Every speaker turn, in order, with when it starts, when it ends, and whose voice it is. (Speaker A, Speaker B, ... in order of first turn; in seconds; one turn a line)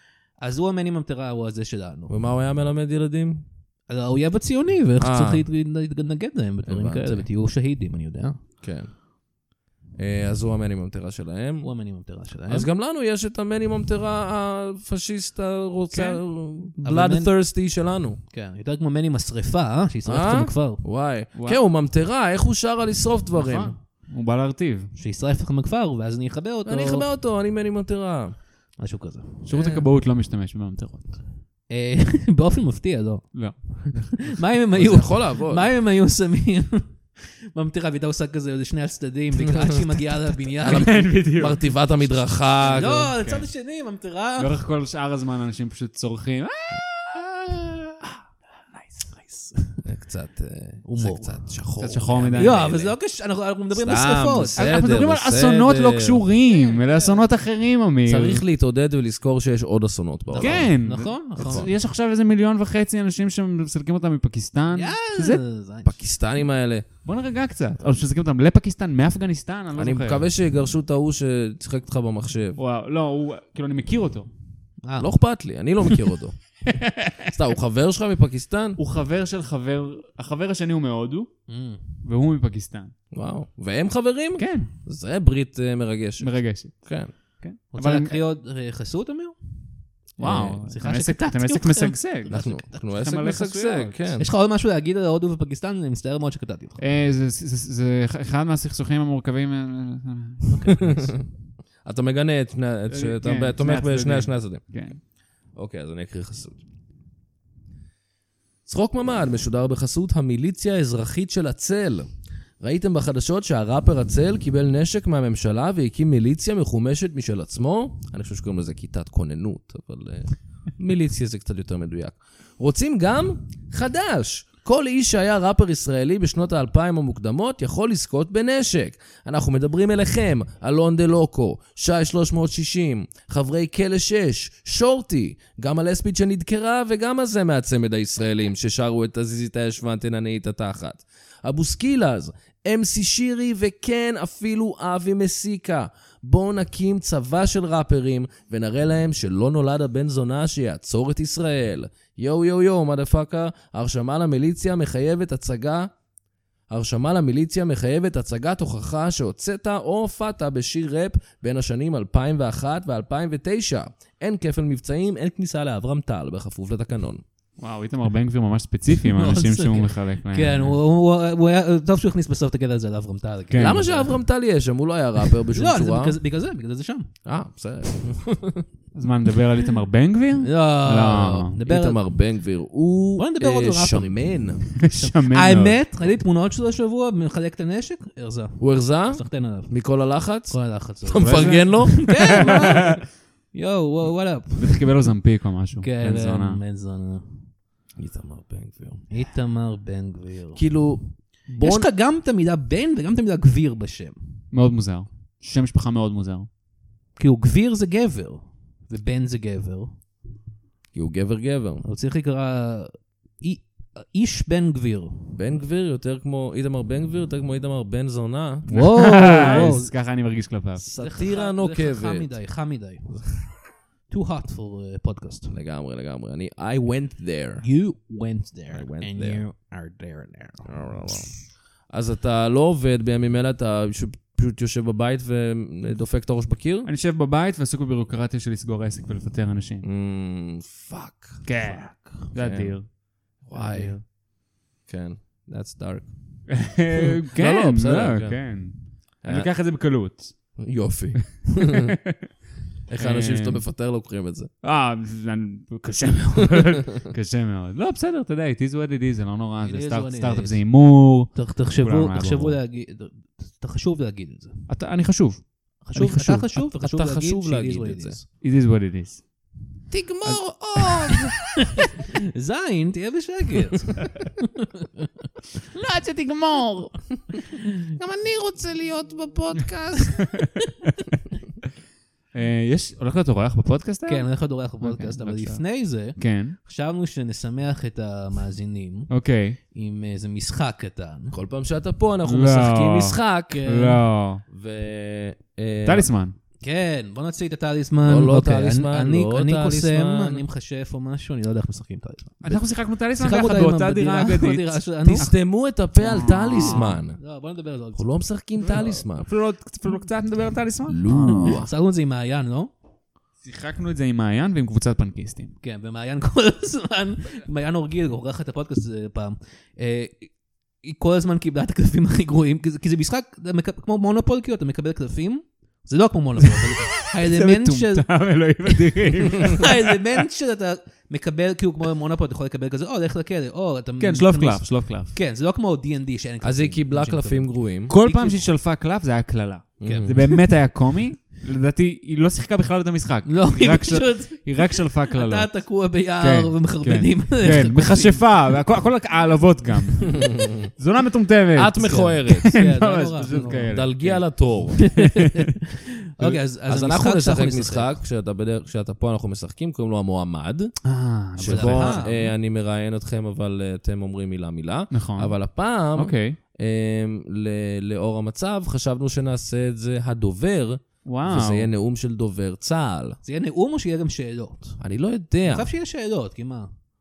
Speaker A: 0.4-2.1
Speaker B: 2.1-3.4
Speaker A: 3.9-8.4
Speaker B: 5.0-5.4
Speaker B: 6.6-7.3
Speaker B: 8.6-8.9
Speaker B: 10.0-11.7
Speaker A: 11.6-12.7
Speaker B: 12.5-18.2
Speaker C: 15.9-16.2
Speaker A: 16.8-17.3
Speaker A: 18.3-20.8
Speaker B: 20.1-23.7
Speaker C: 21.3-21.6
Speaker C: 23.4-24.9
Speaker A: 24.9-27.1
Speaker B: 26.6-28.4
Speaker A: 28.8-29.4
Speaker C: 29.4-31.2
Speaker B: 29.5-29.8
Speaker A: 31.7-41.0
Speaker C: 33.3-34.4
Speaker B: 34.7-35.6
Speaker C: 40.6-41.7
Speaker B: 40.6-43.1
Speaker C: 42.6-43.5
Speaker A: 42.6-44.6
Speaker C: 44.4-49.6
Speaker B: 49.8-53.0
Speaker A: 50.8-51.5
Speaker C: 51.8-52.6
Speaker A: 52.4-54.7
Speaker B: 53.7-56.2
Speaker C: 54.5-58.4
Speaker A: 56.5-57.3
Speaker B: 58.0-60.8
Speaker A: 60.3-61.7
Speaker C: 60.4-65.4
Speaker B: 61.4-61.7
Speaker A: 64.7-66.0
Speaker B: 65.8-66.9
Speaker C: 67.0-70.3
Speaker B: 69.8-72.6
Speaker C: 72.6-74.3
Speaker A: 74.8-75.1
Speaker B: 75.0-76.4
Speaker C: 76.7-77.3
Speaker B: 77.3-78.8
Speaker C: 78.8-81.3
Speaker A: 81.5-81.8
Speaker C: 82.0-82.9
Speaker B: 83.1-87.1
Speaker C: 84.4-84.7
Speaker C: 86.2-88.2
Speaker A: 87.7-92.8
Speaker C: 90.2-94.0
Speaker B: 90.2-90.6
Speaker B: 92.3-94.3
Speaker A: 94.2-96.8
Speaker C: 96.8-100.6
Speaker A: 100.5-101.0
Speaker B: 100.7-101.3
Speaker B: 101.8-104.6
Speaker C: 102.9-105.0
Speaker B: 105.5-106.6
Speaker B: 108.7-112.1
Speaker B: 112.6-155.9
Speaker B: 156.7-167.2
Speaker C: 167.6-170.8
Speaker A: 169.1-174.2
Speaker C: 173.5-173.8
Speaker B: 173.6-176.2
Speaker A: 175.5-177.1
Speaker B: 177.2-178.7
Speaker C: 178.9-181.6
Speaker A: 180.4-182.0
Speaker B: 181.7-184.7
Speaker A: 183.2-189.8
Speaker C: 184.8-185.8
Speaker B: 188.6-192.5
Speaker A: 190.4-194.9
Speaker C: 191.3-193.0
Speaker C: 194.6-196.6
Speaker A: 195.8-197.4
Speaker B: 198.0-199.1
Speaker A: 199.1-200.6
Speaker B: 200.6-201.9
Speaker A: 201.6-204.2
Speaker C: 204.5-206.5
Speaker A: 207.2-209.9
Speaker B: 210.9-211.8
Speaker A: 211.8-215.3
Speaker B: 215.3-219.7
Speaker C: 218.7-220.8
Speaker A: 218.7-219.9
Speaker B: 220.8-222.3
Speaker A: 221.0-223.5
Speaker A: 224.1-225.5
Speaker B: 225.5-227.6
Speaker A: 227.6-231.1
Speaker B: 228.7-229.4
Speaker B: 230.6-236.9
Speaker C: 236.8-239.8
Speaker B: 239.8-242.8
Speaker C: 241.4-242.9
Speaker B: 243.4-244.2
Speaker C: 243.5-244.0
Speaker B: 244.8-246.6
Speaker C: 246.5-250.6
Speaker B: 247.3-248.4
Speaker B: 249.2-249.5
Speaker B: 250.6-251.9
Speaker C: 251.7-252.1
Speaker B: 252.9-254.5
Speaker C: 253.0-253.6
Speaker C: 254.6-262.6
Speaker A: 259.6-264.7
Speaker C: 264.7-266.4
Speaker A: 265.8-268.2
Speaker B: 266.3-268.2
Speaker C: 268.4-269.3
Speaker B: 269.9-271.4
Speaker A: 271.4-275.1
Speaker C: 275.7-277.1
Speaker B: 278.0-280.2
Speaker A: 280.1-280.9
Speaker C: 282.3-284.3
Speaker A: 284.1-289.1
Speaker C: 284.8-286.6
Speaker C: 289.1-289.6
Speaker A: 289.7-291.3
Speaker B: 291.3-293.6
Speaker C: 292.2-294.4
Speaker A: 293.5-294.0
Speaker B: 294.5-296.1
Speaker C: 295.8-296.4
Speaker A: 296.6-302.6
Speaker B: 298.0-300.4
Speaker C: 302.4-305.4
Speaker A: 303.1-305.3
Speaker B: 305.1-307.2
Speaker C: 306.0-306.9
Speaker A: 306.3-308.1
Speaker B: 307.9-309.3
Speaker C: 308.7-311.6
Speaker B: 310.9-311.7
Speaker A: 311.4-312.7
Speaker C: 313.4-315.5
Speaker A: 315.6-328.1
Speaker C: 326.4-330.2
Speaker A: 329.4-338.5
Speaker C: 334.0-335.1
Speaker B: 336.4-337.9
Speaker C: 337.9-345.5
Speaker B: 339.8-340.2
Speaker A: 339.8-340.4
Speaker A: 343.2-348.3
Speaker C: 346.2-355.4
Speaker B: 350.2-350.5
Speaker B: 351.5-352.6
Speaker A: 351.8-353.8
Speaker B: 353.5-354.9
Speaker A: 354.8-357.9
Speaker B: 356.2-360.7
Speaker C: 360.8-362.3
Speaker A: 361.4-362.2
Speaker B: 361.4-373.2
Speaker C: 364.9-365.4
Speaker C: 365.9-366.4
Speaker C: 371.0-371.7
Speaker A: 373.2-374.8
Speaker B: 374.8-375.7
Speaker A: 375.4-376.7